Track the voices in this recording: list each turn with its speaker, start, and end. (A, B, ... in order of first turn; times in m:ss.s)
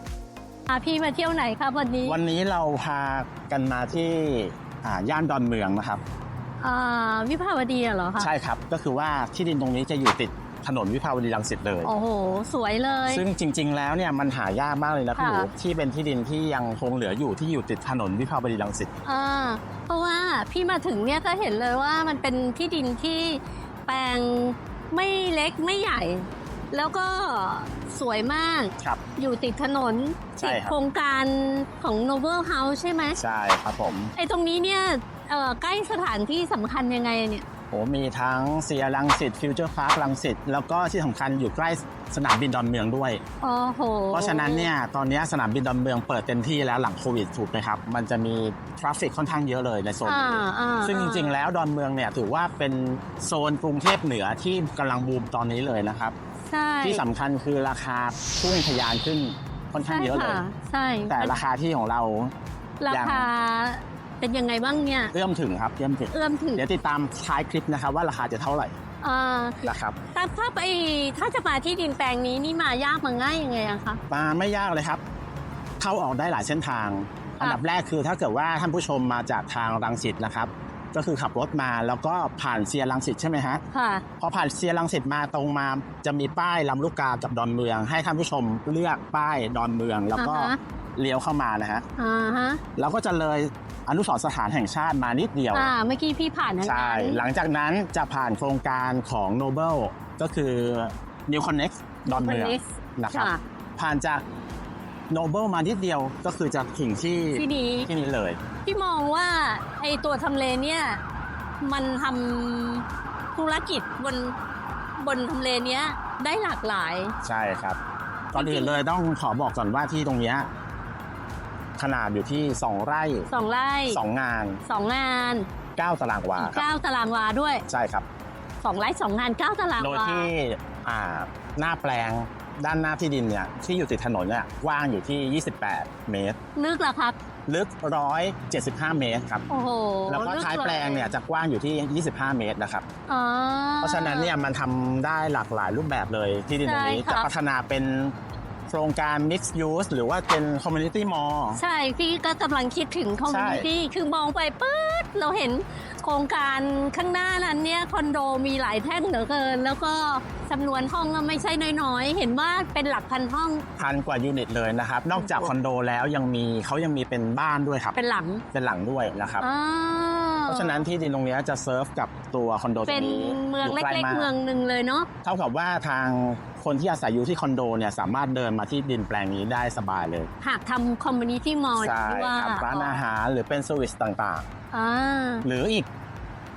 0:00.7-0:02.2 A
0:02.0-0:06.0 B
0:06.6-0:08.3 A
0:08.2-0:11.9 B
0:11.8-0:13.2 A
0:13.1-0:18.9 B
0:15.2-0:15.5 A
0:19.0-0:33.2 A
0:30.4-0:30.8 B
0:33.2-0:34.1 B
0:34.2-0:37.4 A
0:37.7-0:43.2 B
0:43.4-0:44.7 A
0:44.1-0:56.2 B
0:50.0-0:51.3 A
0:56.5-0:57.0 A
0:56.8-1:00.4 B
0:59.8-1:01.3 A
1:01.1-1:02.3 B
1:02.8-1:05.1 A
1:02.9-1:03.3 B
1:05.1-1:08.8 B
1:06.1-1:06.6 A
1:09.0-1:09.6 A
1:09.6-1:10.0 B
1:10.1-1:14.0 A
1:14.1-1:15.0 B
1:15.8-1:23.6 B
1:23.7-1:24.0 A
1:24.2-1:31.8 B
1:30.2-1:30.6 A
1:32.0-1:32.6 A
1:32.8-1:35.7 B
1:35.5-1:37.2 A
1:36.6-1:44.2 B
1:42.1-1:43.4 A
1:45.1-1:48.4 B
1:47.4-1:47.9 A
1:48.7-1:51.0 A
1:51.6-1:54.4 A
1:55.0-1:57.2 A
1:57.2-1:57.8 B
1:58.3-2:00.5 B
1:58.4-1:58.8 A
2:01.8-2:03.3 B
2:03.3-2:04.0 A
2:03.9-2:04.6 B
2:04.6-2:05.5 A
2:05.8-2:06.7 B
2:06.4-2:07.6 A
2:07.7-2:08.1 B
2:08.6-2:10.3 A
2:09.8-2:16.4 B
2:16.6-2:17.2 A
2:17.5-2:19.4 B
2:19.5-2:21.1 A
2:20.1-2:22.8 B
2:23.1-2:24.4 A
2:23.8-2:28.1 B
2:26.6-2:27.3 A
2:28.7-2:31.6 B
2:31.6-2:43.7 A
2:33.3-2:33.7 B
2:43.8-2:48.0 B
2:45.2-2:45.5 A
2:48.0-2:48.4 A
2:48.5-2:49.5 B
2:49.4-2:50.8 A
2:50.5-2:54.3 B
2:52.9-2:55.1 A
2:55.2-3:00.3 B
3:00.4-3:03.0 A
3:01.8-3:04.5 B
3:04.7-3:05.5 A
3:05.4-3:05.9 B